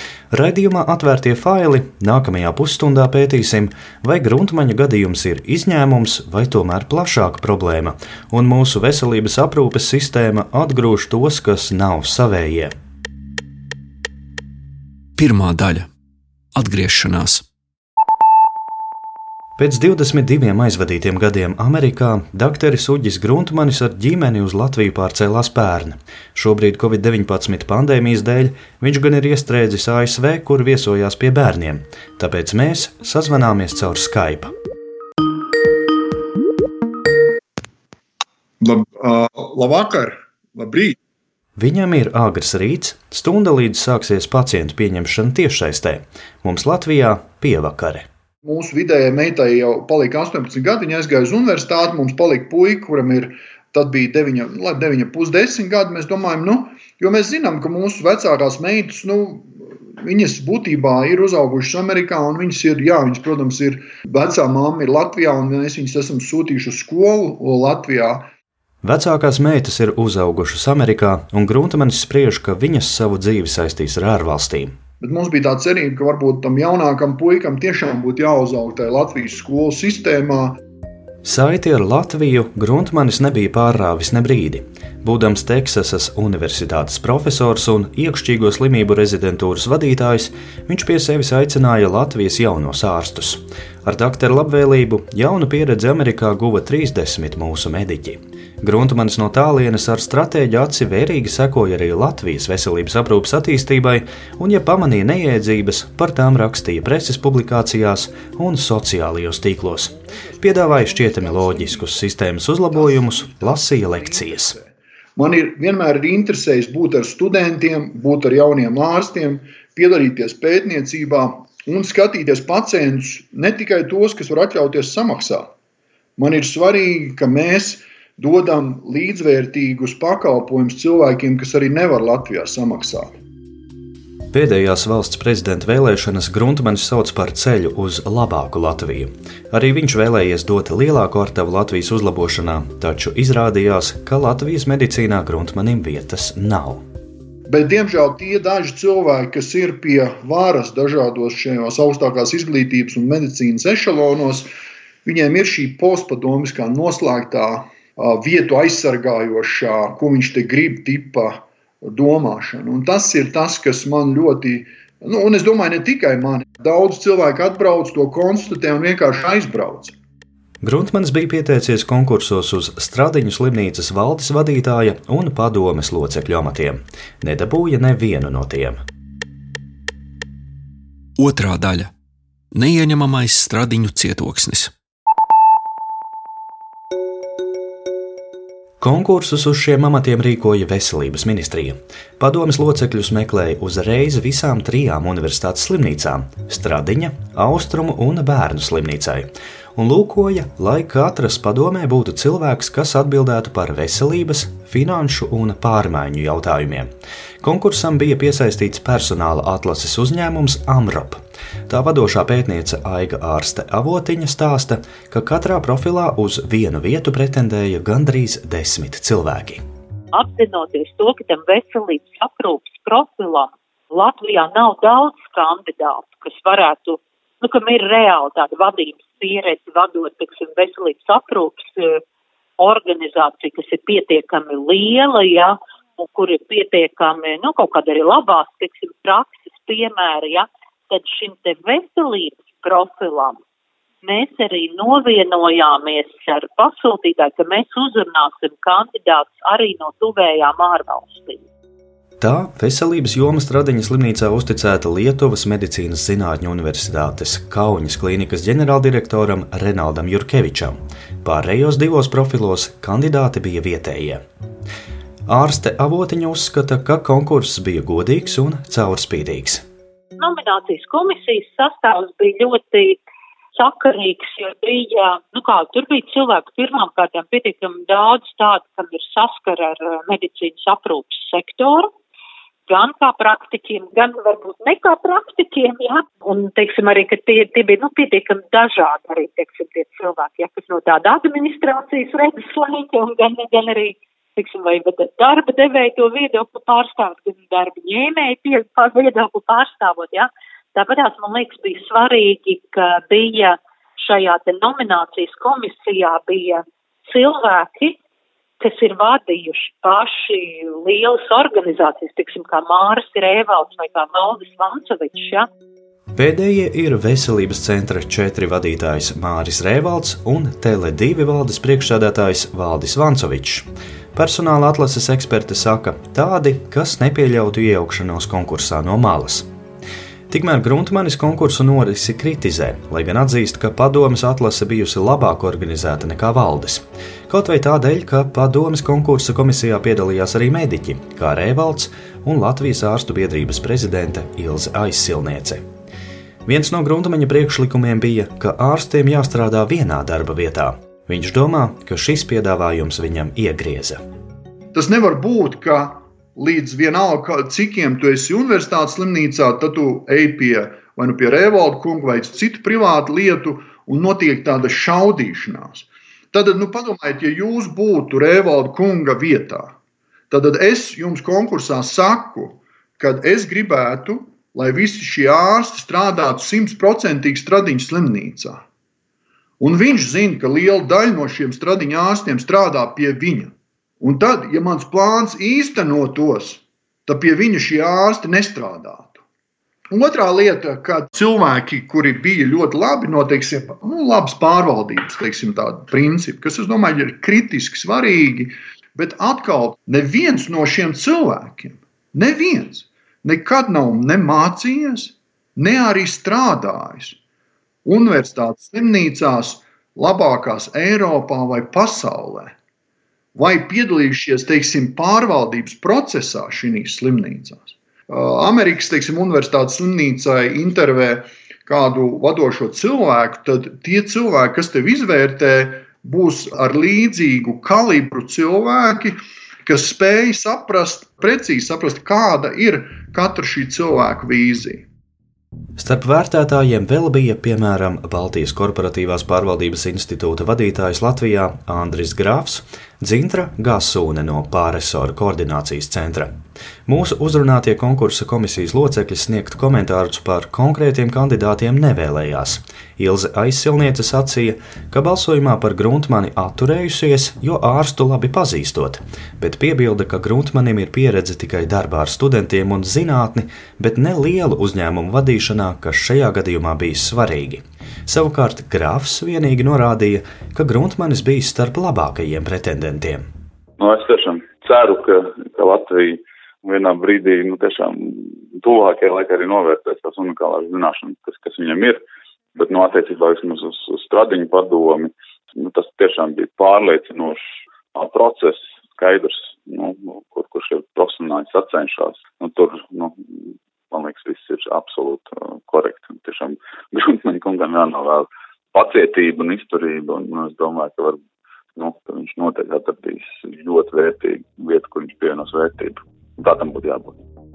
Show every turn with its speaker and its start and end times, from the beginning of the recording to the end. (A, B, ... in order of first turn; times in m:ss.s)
0:00.3-0:12.7 A
0:15.2-0:15.9 B
0:16.6-0:17.4 B
0:19.6-0:34.5 A
0:38.6-0:41.0 C
0:41.6-0:48.1 A
0:48.4-1:08.3 C
1:08.8-1:14.7 A
1:15.0-1:20.6 C
1:21.2-1:54.6 A
1:49.9-1:52.1 C
1:52.7-2:05.5 C
2:06.2-2:13.2 C
2:14.3-2:26.8 A
2:27.5-2:34.5 C
2:35.0-2:50.0 C
2:50.6-2:58.8 A
3:01.2-3:01.9 B
3:02.5-3:04.7 B
3:08.8-3:26.9 A
3:27.4-3:39.6 A
3:40.1-3:52.0 D
3:52.6-4:03.4 D
4:04.0-4:11.4 D
4:12.2-4:24.2 A
4:25.3-4:29.6 A
4:30.2-4:33.0 D
4:33.6-4:41.9 D
4:42.7-5:08.0 D
5:08.6-5:15.5 D
5:16.2-5:29.5 A
5:30.3-5:45.6 A
5:46.5-5:54.0 A
5:54.7-6:09.8 C
6:10.3-6:18.6 C
6:19.6-6:29.2 C
6:29.9-6:47.2 C
6:47.8-6:52.6 C
6:53.4-7:14.9 C
7:15.8-7:26.3 A
7:26.9-7:53.3 A
7:53.8-8:02.0 E
8:02.6-8:07.4 E
8:07.9-8:21.2 E
8:21.8-8:27.2 E